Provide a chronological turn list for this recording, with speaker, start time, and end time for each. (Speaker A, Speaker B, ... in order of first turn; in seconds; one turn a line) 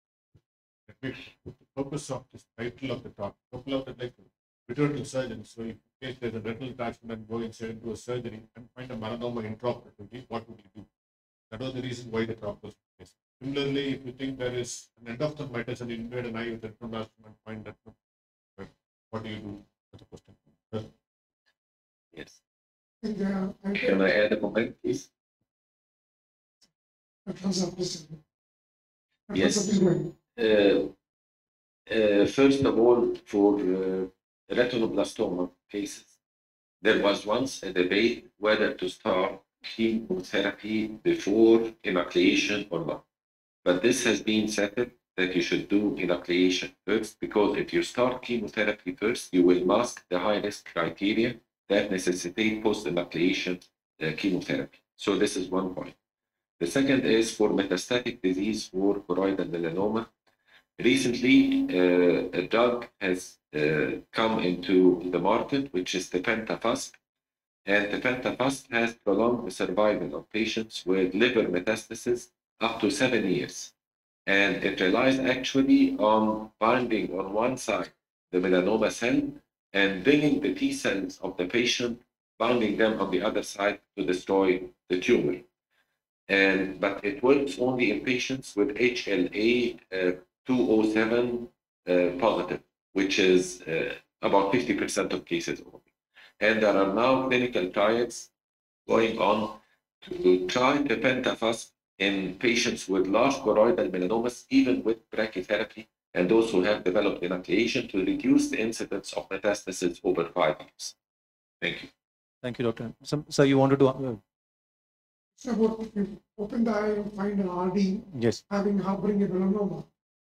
Speaker A: 0.9-10.9
Speaker A: 11.5-18.0
Speaker A: 18.6-20.9
Speaker B: 23.0-24.0
Speaker C: 23.8-25.1
Speaker B: 27.3-28.2
Speaker B: 29.3-30.1
Speaker C: 29.3-30.9
Speaker C: 31.9-36.1
Speaker C: 36.8-43.0
Speaker C: 43.6-56.0
Speaker C: 56.6-60.1
Speaker C: 60.8-67.0
Speaker C: 67.7-73.7
Speaker C: 74.3-85.5
Speaker C: 86.3-95.8
Speaker C: 96.4-98.3
Speaker C: 98.9-110.9
Speaker C: 111.6-111.9
Speaker D: 112.4-114.2
Speaker B: 115.4-119.9
Speaker D: 118.1-118.4